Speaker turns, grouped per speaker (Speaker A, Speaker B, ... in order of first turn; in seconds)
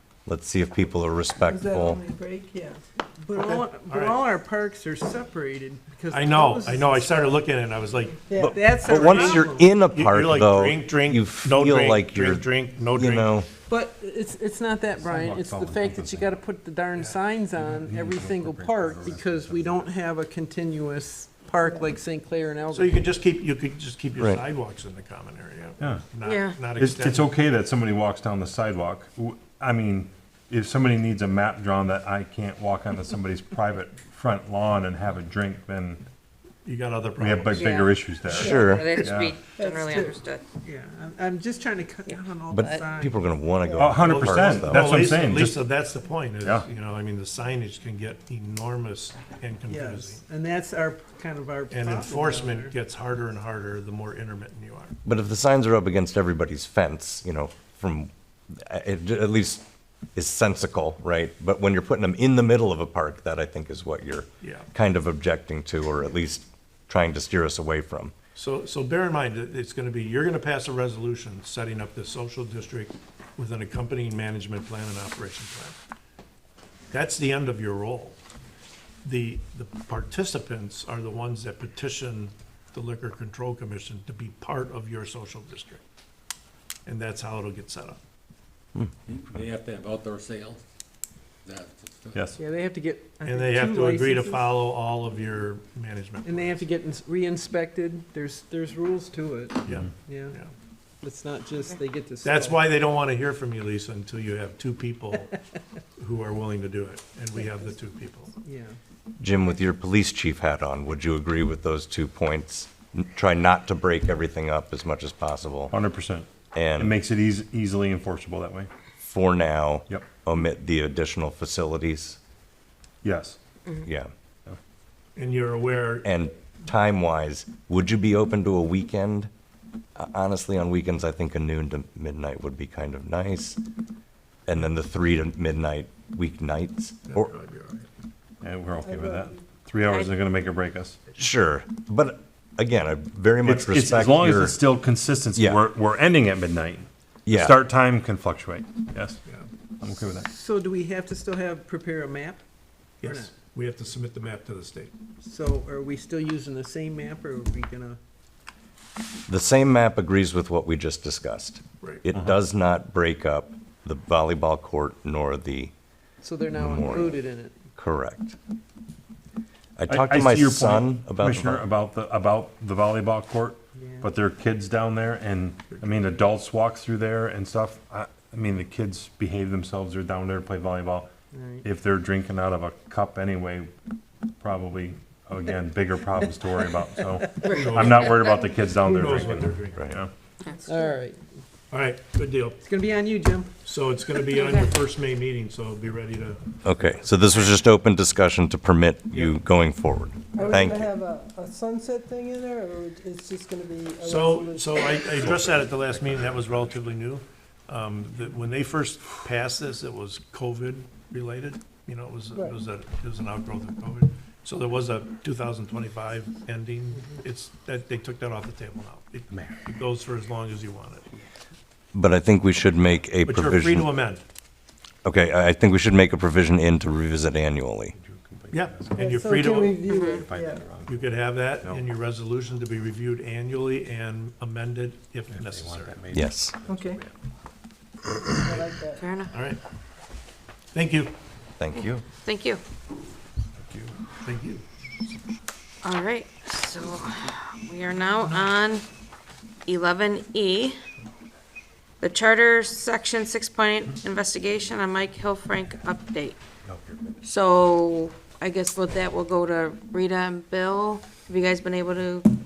Speaker A: 0.2-2.0, 8.3-13.5, 38.4-38.9, 42.5-44.9, 55.0-59.6, 60.1-68.1, 109.2-115.7, 116.5-116.9, 119.0-122.2, 123.8-124.1, 126.0-129.3, 129.9-133.6, 134.5-137.3, 141.2-144.6, 145.3-145.6, 147.2-147.6, 159.3-165.7, 166.5-167.2, 167.8-168.3, 169.8-171.6, 189.7-190.0, 196.6-200.9, 221.9-223.9, 225.0-227.9, 236.1-236.6, 241.6-242.0
Speaker B: 1.4-2.8, 8.3-8.6, 39.6-40.1, 43.7-44.0, 138.8-139.4, 190.5-191.0, 200.3-205.3, 228.9-230.6, 236.7-237.0, 238.3-239.0
Speaker C: 3.2-7.3, 8.4-9.7, 13.7-23.0, 40.6-43.2, 49.7-52.7, 92.3-94.6, 96.2-100.4, 101.0-102.6, 108.4-108.8, 150.1-152.4, 153.0-153.3, 155.2-158.0, 166.2-167.5, 173.8-174.1, 181.3-181.6, 187.2-187.8, 190.7-191.2, 192.6-193.5
Speaker D: 3.3-4.2, 6.1-8.2, 8.9-13.3, 16.9-17.2, 22.7-27.3, 36.6-37.7, 44.1-50.2, 51.7-54.9, 64.4-64.7, 68.3-75.8, 76.9-78.2, 79.0-85.8, 86.8-88.0, 93.2-96.7, 99.7-100.5, 102.2-105.4, 106.0-108.3, 125.2-126.1, 137.1-137.8, 153.0-154.9, 187.5-189.8, 191.7-192.7, 193.6-196.4, 204.0-221.1, 223.2-224.2, 228.5-229.8, 230.8-236.0, 239.3-239.6, 240.7-241.1, 244.2-244.6
Speaker E: 15.0-16.3, 17.6-19.9, 25.8-26.0, 26.8-36.0, 37.2-39.3, 43.8-45.6, 92.1-92.4, 115.7-118.7, 123.0-123.4, 138.4-141.0, 143.4-149.2, 149.8-150.3, 162.1-162.4, 169.9-181.1, 181.6-183.7, 184.4-190.1, 227.9-229.2, 230.1-231.1, 235.3-237.1, 243.6-243.9
Speaker F: 26.2-26.6, 37.5-40.4, 42.1-42.8, 187.5-188.3, 194.3-194.7, 229.8-230.3, 239.0-239.3, 241.7-242.6, 245.8-248.8, 249.7-250.8, 252.0-256.4, 257.2-262.3
Speaker G: 89.0-90.6, 91.4-92.3